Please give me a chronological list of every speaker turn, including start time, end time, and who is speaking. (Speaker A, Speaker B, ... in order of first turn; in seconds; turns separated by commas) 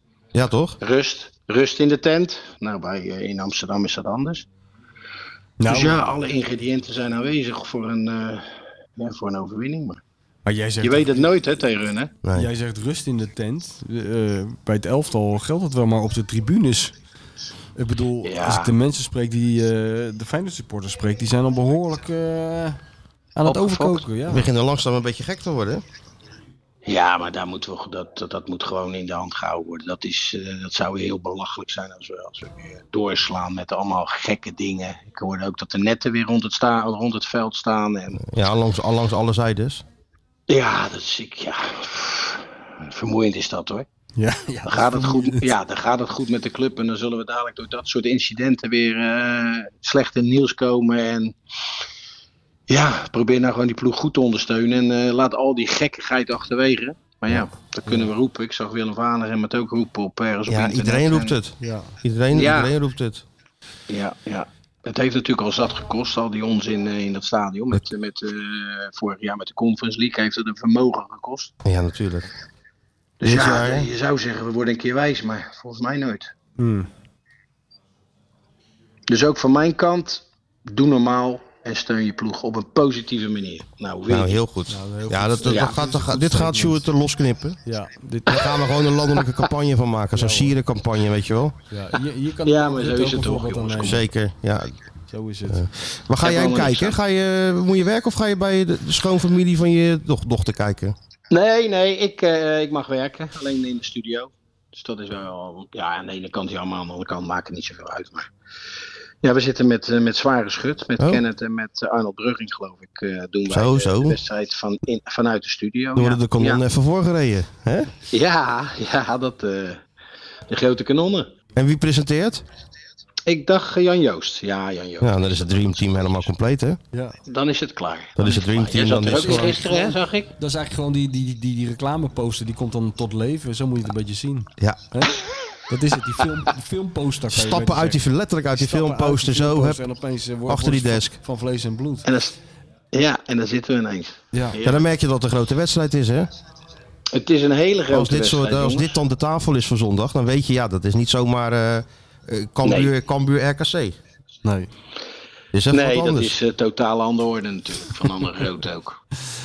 Speaker A: 0.3-0.8, Speaker B: 0.8-4.5, Speaker C: 5.6-6.0, Speaker B: 5.7-10.0, Speaker C: 10.4-11.3, Speaker B: 10.8-12.2, Speaker A: 12.2-12.5, Speaker C: 12.3-16.9, Speaker C: 17.8-22.8, Speaker B: 18.2-18.7, Speaker C: 23.4-24.5, Speaker B: 23.4-24.0, Speaker A: 24.3-25.8, Speaker B: 26.8-38.2, Speaker A: 38.2-39.8, Speaker B: 40.5-43.9, Speaker C: 44.2-45.5, Speaker B: 44.7-51.3, Speaker B: 52.7-61.4, Speaker A: 60.5-63.2, Speaker C: 61.6-61.9, Speaker B: 62.3-62.7, Speaker B: 63.9-71.5, Speaker A: 71.6-72.3, Speaker B: 73.2-76.3, Speaker A: 73.2-73.9, Speaker C: 76.6-76.9, Speaker B: 79.1-84.4, Speaker A: 84.1-87.6, Speaker C: 84.7-86.8, Speaker B: 85.4-85.7, Speaker C: 87.7-88.4, Speaker A: 88.2-91.5, Speaker C: 90.1-90.5, Speaker C: 91.7-94.0, Speaker B: 92.4-94.0, Speaker A: 93.8-94.8, Speaker C: 95.1-95.7, Speaker A: 95.5-101.0, Speaker B: 96.2-97.0, Speaker B: 101.3-108.3, Speaker B: 109.2-116.6, Speaker A: 113.5-114.2, Speaker A: 115.9-117.9, Speaker B: 118.1-119.8, Speaker B: 120.5-121.3, Speaker A: 121.5-122.4, Speaker B: 123.3-125.5, Speaker A: 125.0-126.8, Speaker B: 127.3-130.3, Speaker A: 128.2-129.7, Speaker C: 129.1-135.1, Speaker A: 134.6-135.0, Speaker C: 135.7-138.0, Speaker A: 137.3-139.8, Speaker C: 138.5-142.1, Speaker A: 140.4-141.2, Speaker B: 142.0-142.4, Speaker B: 142.9-144.8, Speaker C: 144.3-144.6, Speaker A: 144.6-146.3, Speaker B: 147.1-148.9, Speaker A: 147.9-153.9, Speaker B: 152.6-152.9, Speaker C: 154.4-154.7, Speaker A: 155.5-156.3, Speaker B: 155.7-159.0